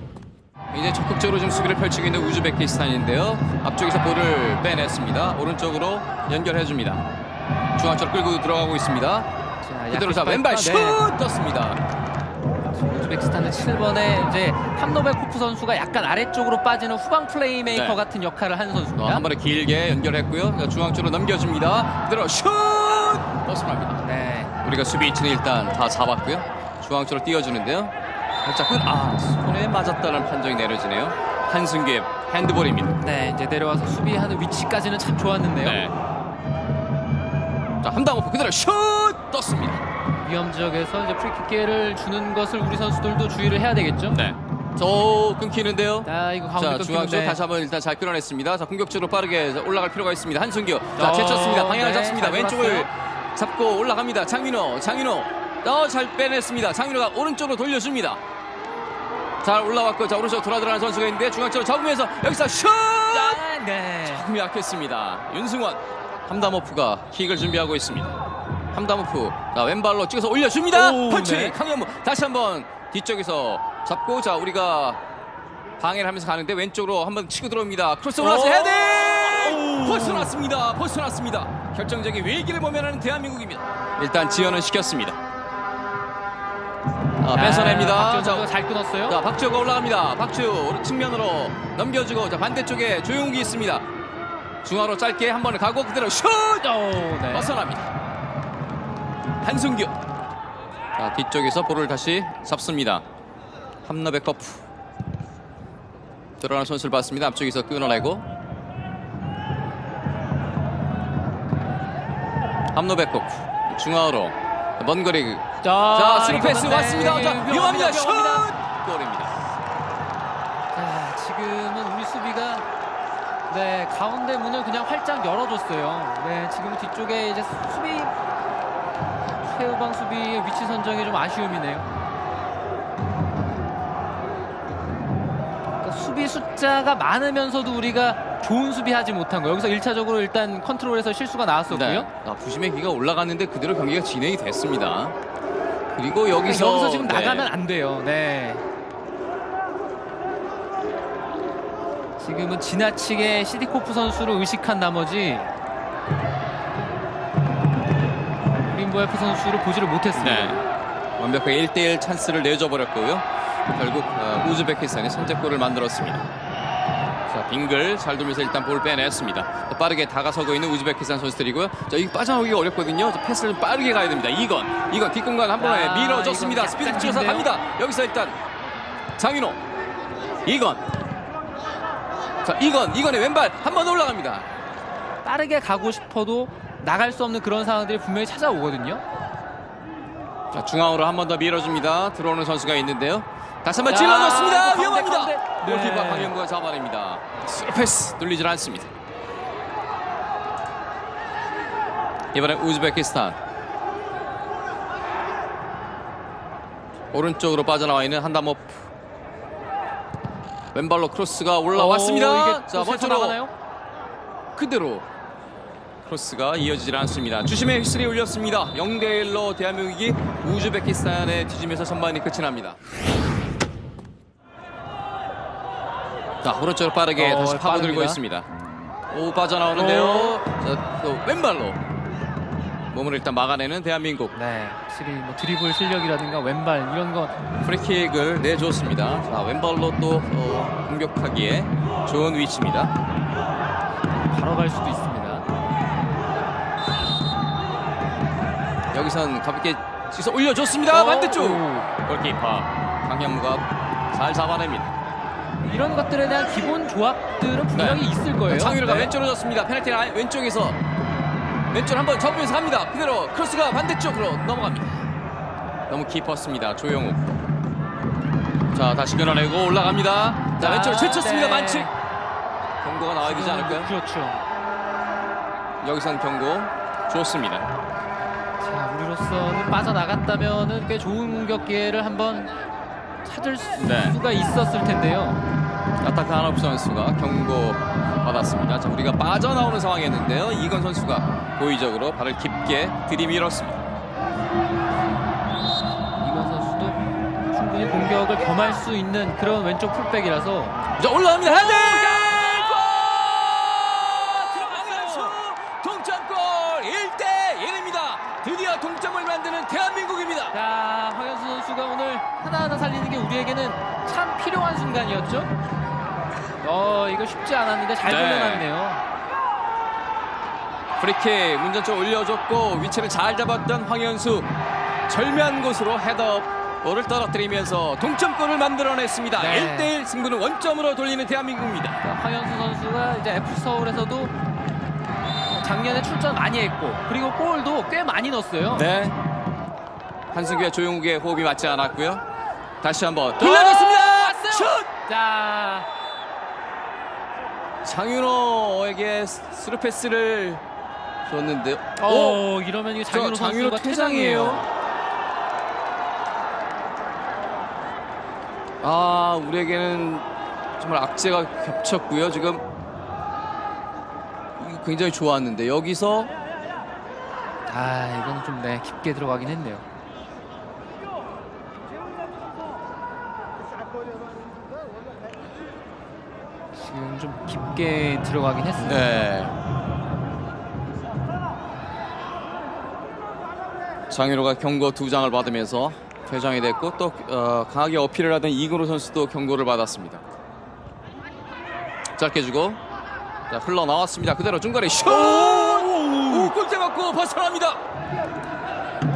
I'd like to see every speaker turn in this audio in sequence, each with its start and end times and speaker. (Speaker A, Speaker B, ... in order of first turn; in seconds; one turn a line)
Speaker A: 0.7-7.0
Speaker A: 7.8-9.3
Speaker B: 9.6-11.1
Speaker A: 9.9-11.8
Speaker B: 12.7-19.2
Speaker A: 17.7-18.0
Speaker A: 19.0-24.0
Speaker B: 24.0-24.6
Speaker A: 24.6-27.9
Speaker A: 28.4-32.9
Speaker B: 33.0-35.8
Speaker A: 35.6-35.9
Speaker A: 37.8-39.8
Speaker B: 40.2-44.2
Speaker A: 44.1-58.2
Speaker B: 46.0-47.4
Speaker B: 51.0-52.9
Speaker A: 59.4-63.4
Speaker B: 63.1-64.3
Speaker A: 64.0-68.1
Speaker A: 68.7-75.0
Speaker B: 70.7-71.6
Speaker A: 75.8-85.2
Speaker B: 78.2-80.3
Speaker A: 87.2-88.5
Speaker B: 87.3-89.2
Speaker A: 89.1-93.8
Speaker A: 94.6-97.9
Speaker B: 96.6-97.5
Speaker A: 99.4-99.9
Speaker A: 101.0-103.0
Speaker A: 103.8-104.6
Speaker A: 106.4-108.2
Speaker A: 112.7-119.3
Speaker B: 115.6-118.5
Speaker B: 120.7-122.7
Speaker B: 123.5-128.2
Speaker B: 129.4-131.9
Speaker B: 135.8-142.1
Speaker A: 141.7-145.2
Speaker A: 146.0-147.5
Speaker B: 146.4-148.7
Speaker B: 152.2-155.5
Speaker B: 158.7-160.6
Speaker A: 160.2-160.6
Speaker A: 161.2-166.2
Speaker A: 167.3-178.4
Speaker B: 175.6-177.5
Speaker A: 179.2-179.6
Speaker A: 180.4-180.8
Speaker A: 182.4-184.5
Speaker B: 185.2-189.0
Speaker A: 190.5-198.9
Speaker B: 193.8-196.3
Speaker A: 202.3-203.4
Speaker A: 207.1-208.9
Speaker A: 210.7-213.4
Speaker B: 211.7-213.5
Speaker A: 214.6-215.1
Speaker A: 216.1-222.8
Speaker A: 226.4-228.5
Speaker B: 227.2-228.2
Speaker A: 229.1-231.8
Speaker B: 229.8-230.4
Speaker A: 232.9-234.3
Speaker B: 234.3-237.3
Speaker A: 237.6-242.9
Speaker B: 244.2-245.4
Speaker A: 248.9-254.9
Speaker B: 250.9-251.9
Speaker B: 255.7-259.1
Speaker A: 257.7-260.8
Speaker A: 261.7-265.0
Speaker A: 265.9-267.2
Speaker A: 268.7-271.9
Speaker B: 270.6-271.9
Speaker A: 272.8-273.9
Speaker B: 273.2-274.4
Speaker A: 275.8-277.7
Speaker B: 278.6-282.5
Speaker B: 283.2-285.4
Speaker A: 283.8-284.2
Speaker A: 286.0-293.8
Speaker B: 296.2-297.0
Speaker B: 297.5-300.8
Speaker A: 301.0-310.6
Speaker B: 301.4-302.9
Speaker B: 304.3-305.4
Speaker B: 310.5-315.5
Speaker B: 316.6-319.0
Speaker A: 318.0-318.7
Speaker A: 321.0-324.5
Speaker A: 325.1-332.0
Speaker B: 329.4-329.9
Speaker B: 332.0-334.3
Speaker B: 335.5-338.9
Speaker A: 338.8-339.2
Speaker A: 340.3-342.2
Speaker A: 342.8-344.9
Speaker B: 343.4-345.9
Speaker A: 347.8-350.6
Speaker A: 351.3-352.4
Speaker B: 352.0-354.6
Speaker A: 353.1-354.6
Speaker A: 358.8-360.3
Speaker A: 360.8-362.6
Speaker A: 364.6-366.3
Speaker B: 367.7-369.9
Speaker B: 376.7-379.1
Speaker A: 378.8-379.5
Speaker A: 384.1-390.2
Speaker A: 392.2-392.8
Speaker A: 393.5-397.8
Speaker B: 395.0-396.5